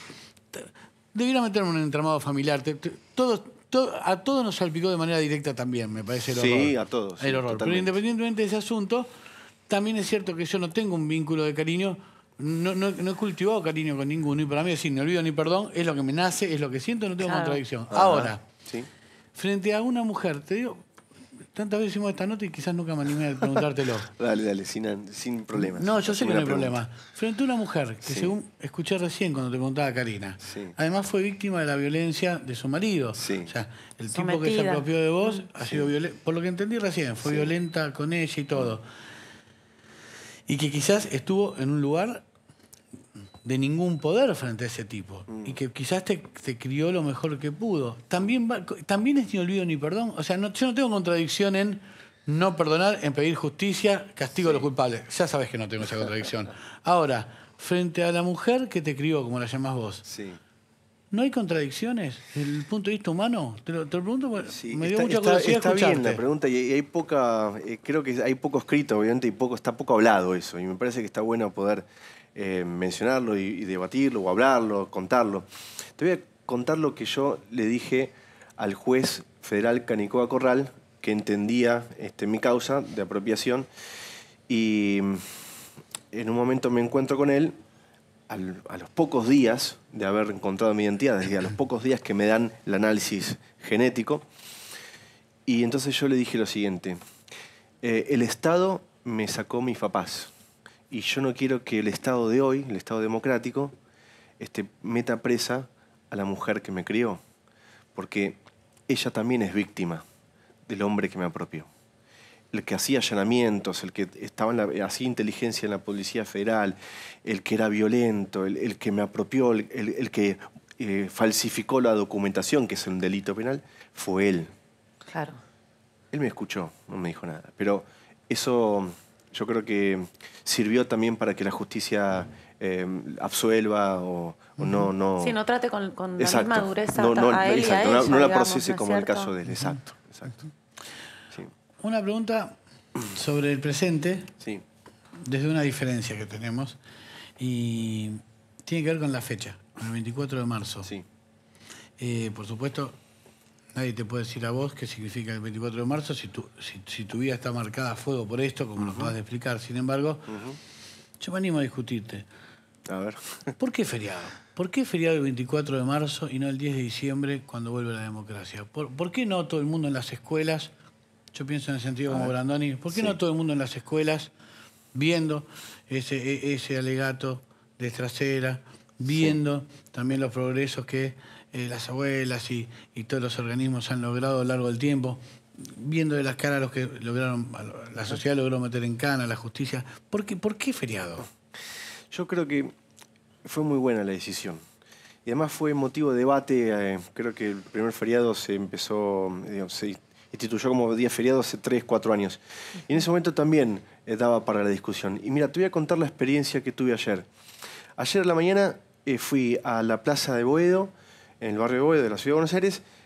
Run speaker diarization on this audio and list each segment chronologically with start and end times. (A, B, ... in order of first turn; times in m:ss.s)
0:00.5-0:09.1 A
0:06.3-0:08.0 B
0:09.7-0:18.4 A
0:17.2-0:17.6 C
0:17.9-0:18.9 B
0:19.3-0:20.8 A
0:21.5-0:24.1 A
0:24.1-0:26.8 B
0:25.6-0:38.9 A
0:28.0-0:28.4 B
0:30.4-0:30.7 B
0:33.2-0:33.5 B
0:34.1-0:35.4 C
0:35.6-0:35.9 B
0:37.2-0:37.5 B
0:40.5-0:42.2 A
0:43.4-1:00.0 A
0:45.3-0:45.6 B
0:54.4-0:54.6 B
1:00.0-1:00.4 B
1:01.1-1:06.2 A
1:04.4-1:23.7 B
1:24.5-1:25.3 B
1:26.1-1:27.5 B
1:28.3-1:34.2 B
1:35.4-1:37.0 B
1:37.8-1:40.3 B
1:40.9-1:43.7 B
1:44.4-1:47.2 B
1:47.9-1:50.0 B
1:50.7-1:51.7 B
1:52.5-2:04.5 B
2:05.1-2:05.4 C
2:06.1-2:15.4 B
2:14.6-2:14.9 A
2:15.2-2:19.3 C
2:16.2-2:20.5 B
2:21.8-2:24.3 A
2:25.2-2:26.8 A
2:27.4-2:30.9 A
2:32.0-2:33.0 A
2:33.7-2:40.3 A
2:38.8-2:39.2 B
2:40.3-2:40.6 B
2:41.2-2:42.2 A
2:42.9-2:43.5 B
2:43.6-2:50.7 A
2:51.3-2:54.3 A
2:52.1-2:52.3 B
2:52.9-2:53.2 B
2:54.9-3:11.3 A
2:59.1-2:59.4 B
3:12.1-3:12.7 B
3:13.4-3:14.6 B
3:15.2-3:27.3 B
3:28.0-3:32.8 B